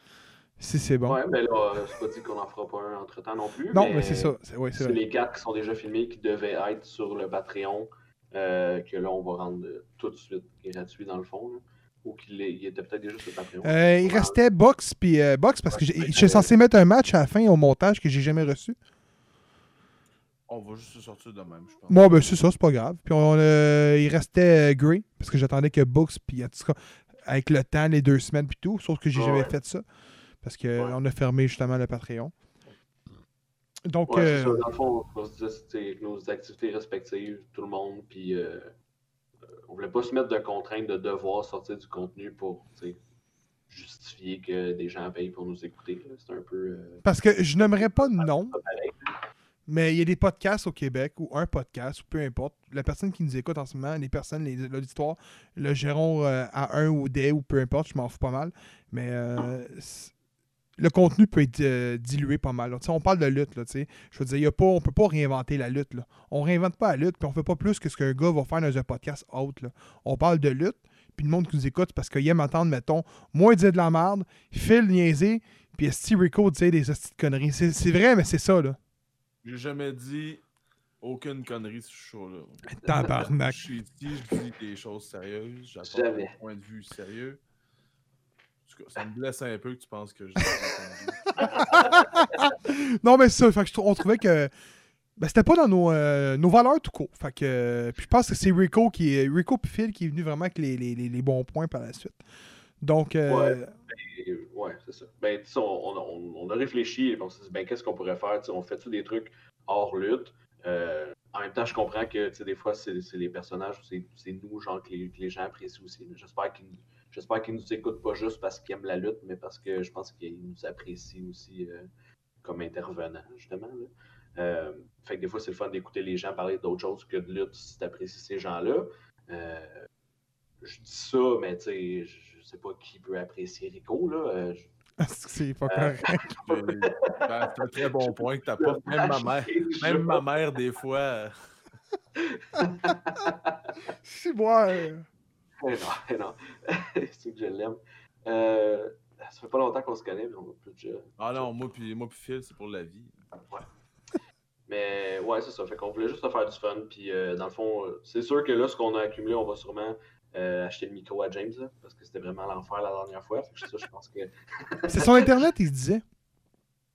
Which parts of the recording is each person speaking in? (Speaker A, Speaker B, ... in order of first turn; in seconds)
Speaker A: 0.6-1.2, 3.7-5.0, 13.6-18.8, 21.9-29.8, 30.4-32.3, 33.9-34.6, 47.1-48.6, 49.7-60.1, 60.8-78.8, 82.8-83.6, 91.5-94.5, 95.2-102.2, 102.8-103.7, 135.0-136.4, 144.0-145.1, 164.9-166.0
Speaker B: 1.1-14.4, 15.7-16.5, 29.1-29.6, 34.1-38.7, 39.6-43.0, 43.7-47.0, 47.6-49.2, 85.8-86.3, 91.5-92.4, 103.3-121.9, 122.4-129.9, 130.6-134.7, 135.7-137.3, 138.0-140.3, 142.2-143.8, 145.6-151.5, 154.7-165.4
Speaker C: 20.5-22.0, 79.4-80.4, 81.0-87.4, 88.7-91.8, 136.4-141.3, 151.2-153.2